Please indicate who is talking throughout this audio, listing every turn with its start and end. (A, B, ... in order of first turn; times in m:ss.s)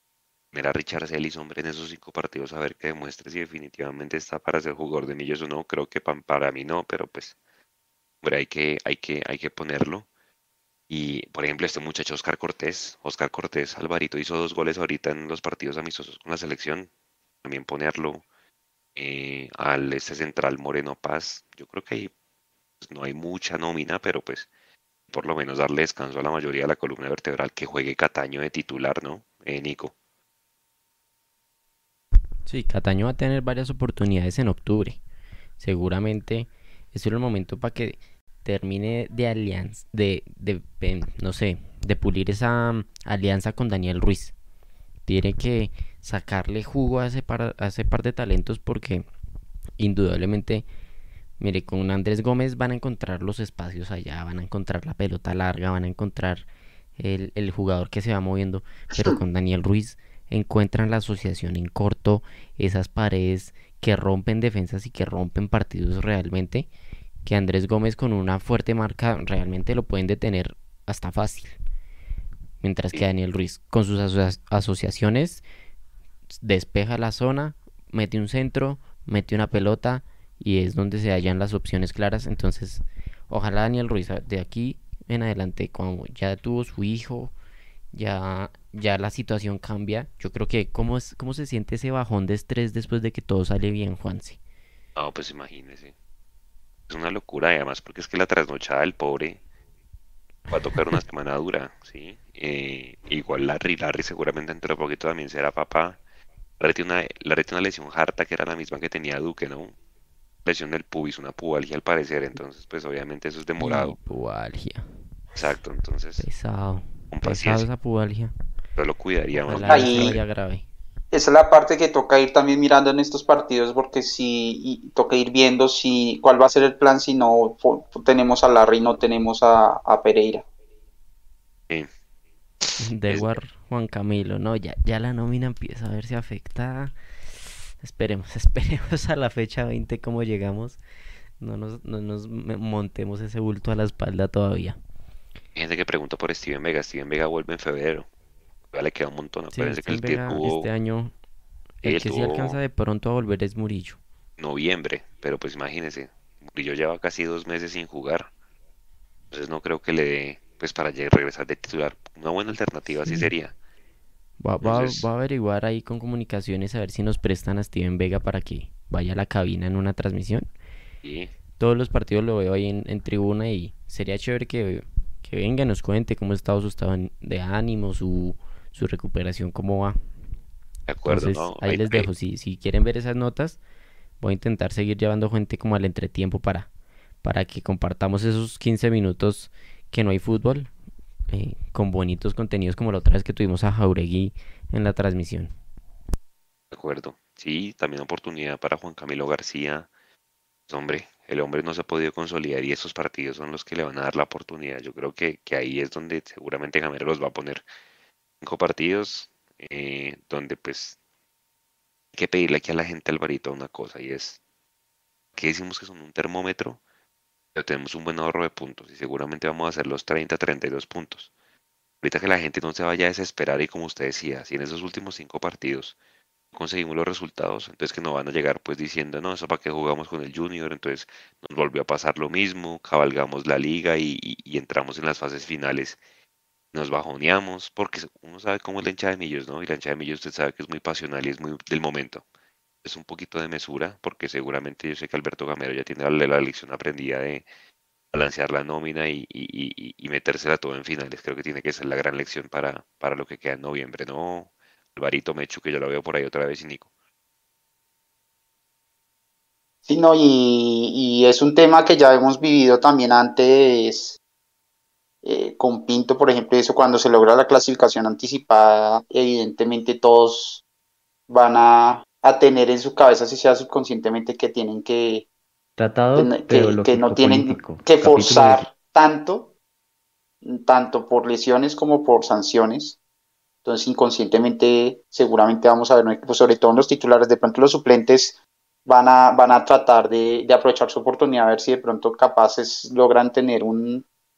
0:00.5-0:07.4 A
0:08.2-0:10.1 A
0:10.9-0:16.9 A
0:17.4-0:18.2 A
0:19.0-0:22.1 A
0:22.8-0:24.5 A
0:25.1-0:29.9 A
0:32.4-0:35.0 B
0:35.6-0:44.3 B
0:45.0-0:49.1 B
0:49.8-0:50.6 B
0:51.4-0:56.4 B
0:57.0-1:06.7 B
1:07.2-1:11.6 B
1:12.6-1:15.4 B
1:16.4-1:27.4 B
1:27.9-1:34.4 B
1:35.0-1:35.9 A
1:36.9-1:39.4 A
1:40.5-1:41.0 B
1:40.5-1:46.0 A
1:46.6-1:49.8 A
1:50.4-1:54.0 A
1:53.6-1:54.9 B
1:55.4-1:56.3 A
1:56.2-1:58.3 B
1:57.1-1:57.7 A
1:58.8-2:00.2 A
1:59.4-2:00.7 B
1:59.7-2:00.2 C
2:01.1-2:10.4 C
2:12.6-2:13.3 A
2:12.8-2:20.8 B
2:21.4-2:24.8 B
2:25.6-2:28.1 A
2:28.7-2:30.7 A
2:29.5-2:31.1 B
2:31.8-2:34.0 B
2:31.8-2:32.6 A
2:34.4-2:38.3 A
2:39.3-2:43.5 A
2:43.0-2:43.3 B
2:44.4-2:50.5 B
2:44.6-2:45.0 A
2:51.0-2:51.3 A
2:51.6-3:00.0 B
3:00.9-3:02.1 A
3:01.0-3:03.6 B
3:04.2-3:06.7 B
3:07.2-3:10.7 B
3:11.3-3:15.5 B
3:16.7-3:19.9 A
3:20.7-3:27.6 A
3:28.4-3:31.0 A
3:32.1-3:34.4 A
3:35.4-3:36.8 A
3:37.6-3:41.3 A
3:42.0-3:46.0 A
3:46.5-3:56.0 A
3:56.7-4:02.2 A
4:02.8-4:07.4 A
4:08.1-4:16.9 A
4:19.9-4:24.2 C
4:25.2-4:30.6 C
4:31.3-4:35.3 C
4:35.8-4:38.7 D
4:36.1-4:39.5 C
4:40.4-4:43.0 C
4:43.6-4:54.0 C